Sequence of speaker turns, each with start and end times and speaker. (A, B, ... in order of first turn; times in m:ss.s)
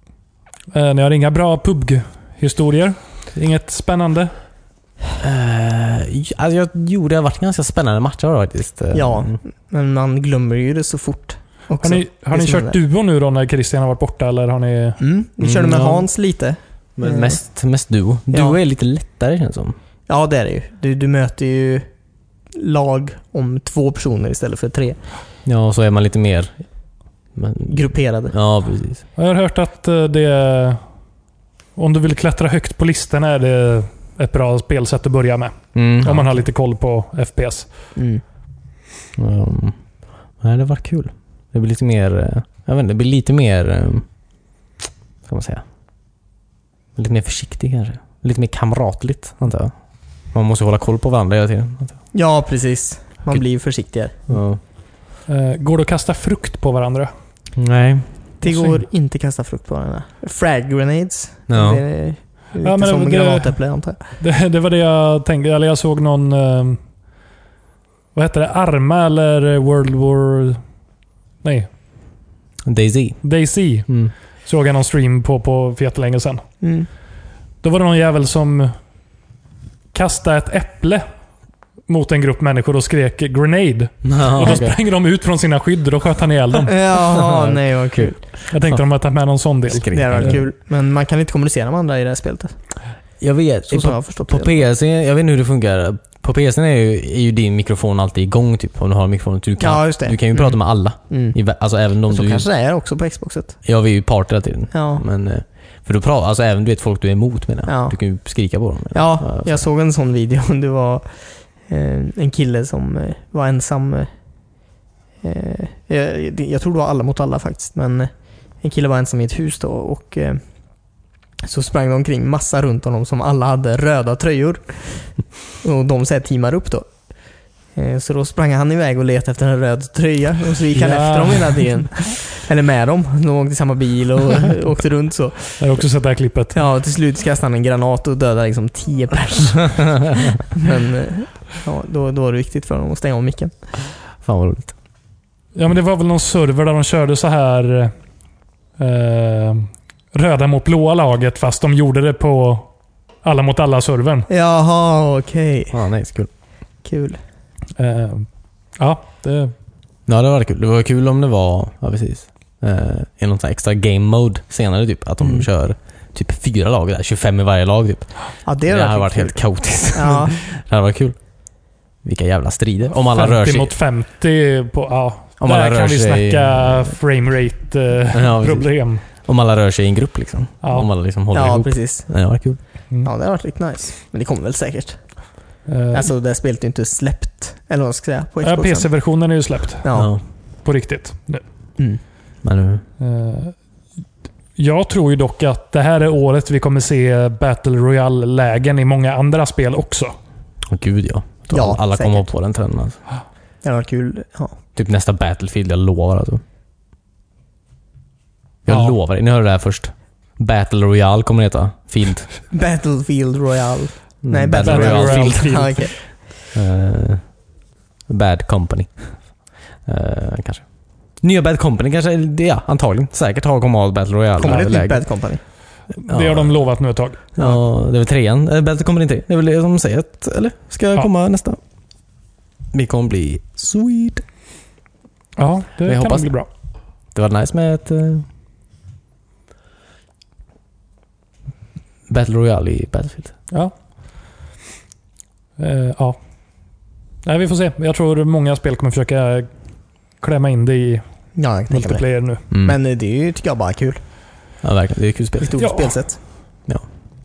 0:00.7-0:04.3 A
0:05.2-0:09.4 B
0:08.9-0:12.8 C
0:11.8-0:15.0 A
0:15.0-0:17.4 C
0:15.4-0:16.0 B
0:17.0-0:19.7 B
0:18.3-0:18.6 C
0:20.1-0:21.9 C
0:22.6-0:25.0 C
0:25.4-0:26.6 B
0:27.3-0:29.0 B
0:27.7-0:28.3 C
0:29.2-0:30.8 A
0:31.8-0:37.7 A
0:35.7-0:36.3 B
0:38.0-0:38.2 C
0:39.2-0:39.8 B
0:40.4-0:44.0 B
0:45.3-0:45.6 B
0:47.0-0:49.7 B
0:50.3-0:52.0 B
0:52.1-0:54.3 C
0:54.3-0:54.6 B
0:55.3-0:57.1 A
0:57.6-0:58.1 B
0:58.4-1:04.0 C
0:58.4-0:58.8 A
1:01.5-1:01.8 B
1:02.6-1:06.8 A
1:08.1-1:10.6 A
1:11.4-1:11.7 A
1:12.6-1:13.2 B
1:13.2-1:16.4 A
1:13.9-1:14.1 B
1:16.6-1:16.9 C
1:17.6-1:18.7 A
1:19.9-1:21.0 A
1:21.9-1:26.8 A
1:24.0-1:24.8 B
1:26.7-1:28.2 C
1:27.1-1:28.8 B
1:28.5-1:30.4 A
1:29.7-1:30.4 B
1:29.9-1:32.6 C
1:33.2-1:42.4 B
1:33.7-1:34.6 C
1:39.6-1:41.4 C
1:42.1-1:43.6 C
1:43.6-1:49.6 B
1:44.7-1:45.0 C
1:47.6-1:48.0 C
1:48.9-1:54.1 C
1:55.2-2:00.4 C
2:01.4-2:06.9 C
2:07.7-2:15.8 C
2:10.7-2:11.9 A
2:15.6-2:16.6 A
2:16.5-2:23.7 C
2:24.2-2:24.7 B
2:25.6-2:27.9 A
2:28.8-2:32.7 A
2:33.2-2:34.3 A
2:34.3-2:35.8 C
2:35.7-2:36.3 B
2:36.8-2:37.2 C
2:37.8-2:39.5 A
2:40.1-2:51.2 B
2:48.4-2:50.4 C
2:52.0-2:53.7 B
2:53.0-2:59.0 A
2:55.4-2:57.0 B
2:58.1-3:02.6 B
3:00.6-3:00.9 A
3:01.3-3:02.1 C
3:03.0-3:05.0 C
3:05.7-3:06.1 A
3:05.9-3:08.9 C
3:08.4-3:10.0 A
3:09.8-3:10.1 C
3:09.9-3:10.2 B
3:10.6-3:11.4 A
3:12.4-3:12.8 B
3:13.0-3:13.6 A
3:14.6-3:20.1 A
3:20.6-3:23.0 B
3:21.5-3:22.3 C
3:23.6-3:24.6 C
3:24.7-3:26.4 B
3:28.6-3:32.3 B
3:28.7-3:29.0 A
3:32.5-3:36.0 C
3:34.2-3:37.4 B
3:34.6-3:35.9 A
3:38.1-3:45.0 B
3:44.4-3:45.4 C
3:46.0-3:47.2 A
3:46.1-3:46.6 B
3:47.4-3:51.6 B
3:52.7-3:54.2 B
3:55.4-3:56.5 A
3:55.9-3:56.3 B
3:57.1-3:58.3 B
4:02.1-4:03.3 B
4:05.6-4:06.2 A
4:07.2-4:09.5 A
4:10.2-4:11.0 A
4:11.4-4:14.0 C
4:11.7-4:12.4 A
4:12.5-4:12.8 B
4:14.6-4:15.6 B
4:15.4-4:16.2 C
4:15.6-4:16.0 A